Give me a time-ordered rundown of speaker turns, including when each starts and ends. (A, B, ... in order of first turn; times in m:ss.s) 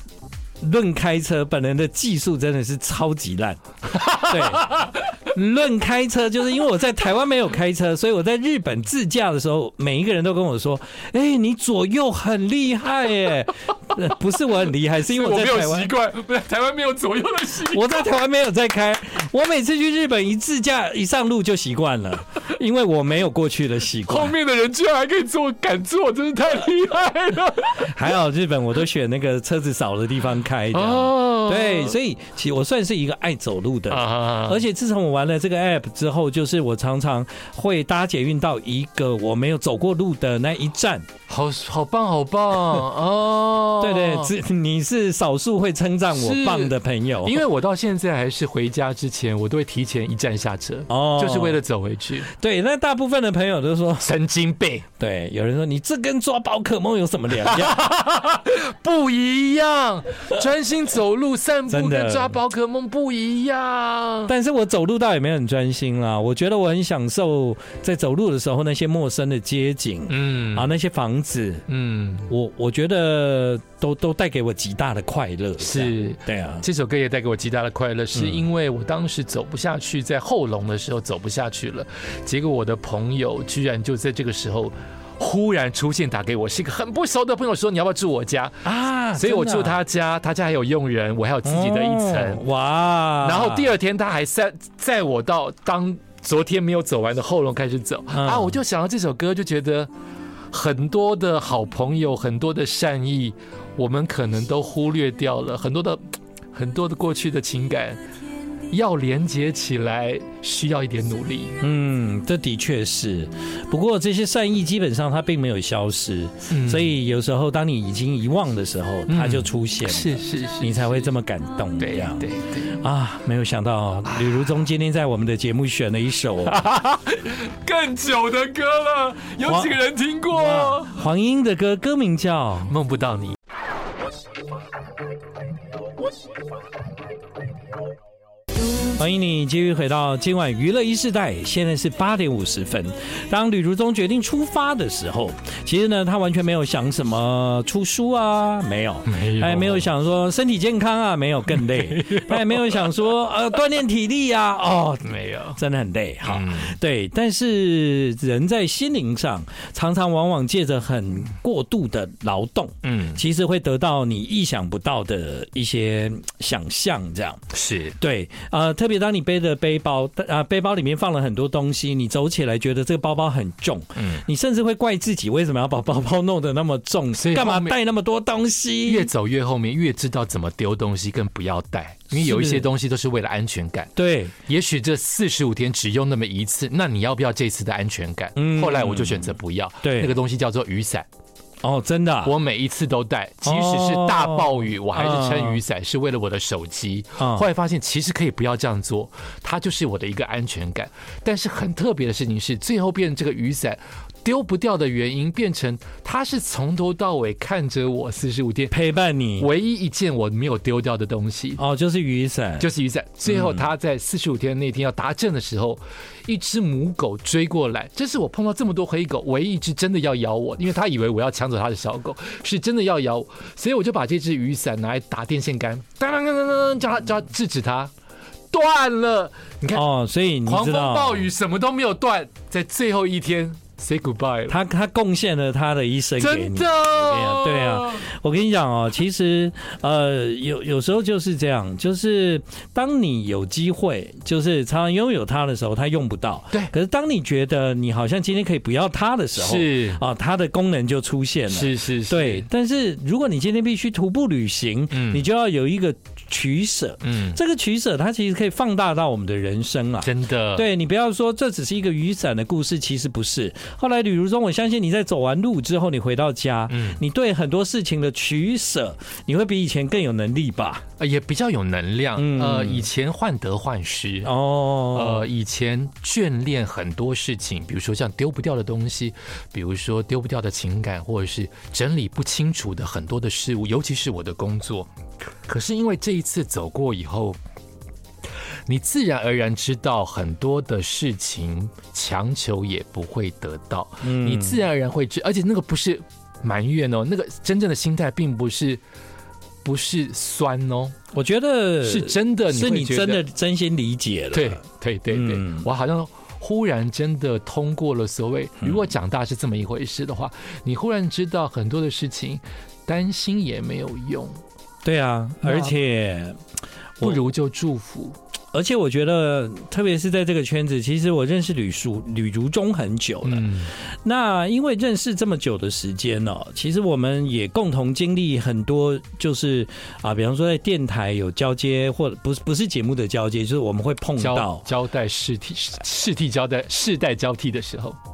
0:00.6-0:15.9 A
0:03.9-0:04.9 B
0:15.0-0:18.1 B
0:17.7-0:24.3 A
0:24.0-0:27.9 B
0:27.8-0:41.1 A
0:30.7-0:31.9 B
0:33.9-0:34.6 B
0:41.3-0:44.3 B
0:43.8-0:47.4 A
0:46.1-0:52.3 B
0:50.9-0:51.6 A
0:52.3-0:54.1 A
0:54.0-0:54.8 B
0:55.0-0:57.8 A
0:57.4-1:04.3 B
1:01.7-1:02.3 A
1:04.3-1:11.6 A
1:10.1-1:10.7 B
1:11.7-1:12.3 B
1:12.3-1:16.6 A
1:15.6-1:32.4 B
1:18.1-1:18.4 A
1:28.6-1:29.8 A
1:31.4-1:33.7 A
1:33.2-1:39.9 B
1:38.1-1:38.6 A
1:40.5-1:46.0 B
1:46.5-1:48.0 B
1:48.7-1:51.6 B
1:51.6-2:06.6 A
1:56.5-1:56.9 B
1:59.1-2:01.1 B
2:01.8-2:02.8 B
2:04.1-2:04.4 B
2:06.4-2:11.0 B
2:09.4-2:09.7 A
2:10.3-2:12.7 A
2:12.7-2:13.4 B
2:18.9-2:47.4 A
2:29.0-2:29.9 B
2:31.5-2:32.9 B
2:35.0-2:35.6 B
2:36.2-2:36.7 B
2:42.8-2:43.2 B
2:47.5-2:47.9 B
2:48.0-2:59.1 A
2:54.0-2:54.2 B
2:57.1-2:57.8 B
2:58.8-3:11.1 B
3:02.1-3:02.7 A
3:04.0-3:04.3 A
3:08.4-3:10.2 A
3:11.6-3:12.3 A
3:12.2-3:28.7 B
3:13.4-3:15.6 A
3:17.2-3:17.4 A
3:28.7-3:29.5 A
3:29.4-3:31.6 B
3:31.6-3:32.7 A
3:32.6-3:47.9 B
3:33.3-3:33.6 A
3:48.5-3:49.8 B
3:49.7-3:51.3 A
3:50.4-3:54.6 B
3:54.5-4:30.8 A
3:56.2-3:58.0 B
4:09.4-4:10.0 B
4:11.5-4:12.5 B
4:14.9-4:15.2 B
4:17.0-4:17.4 B
4:20.0-4:20.6 B
4:26.7-4:27.0 B
4:31.0-4:34.3 B
4:32.2-4:32.8 A
4:34.2-4:35.2 A
4:34.9-4:44.9 B
4:45.4-4:47.4 B
4:48.7-4:58.8 B
4:54.0-4:54.6 A
4:59.6-5:01.0 B
5:01.1-5:05.6 A
5:01.8-5:03.2 B
5:04.3-5:14.4 B
5:14.8-5:16.4 A
5:15.4-5:15.7 B
5:17.0-5:18.2 B
5:18.5-5:23.5 A
5:23.2-5:23.7 B
5:24.0-5:34.6 A
5:34.2-5:38.0 B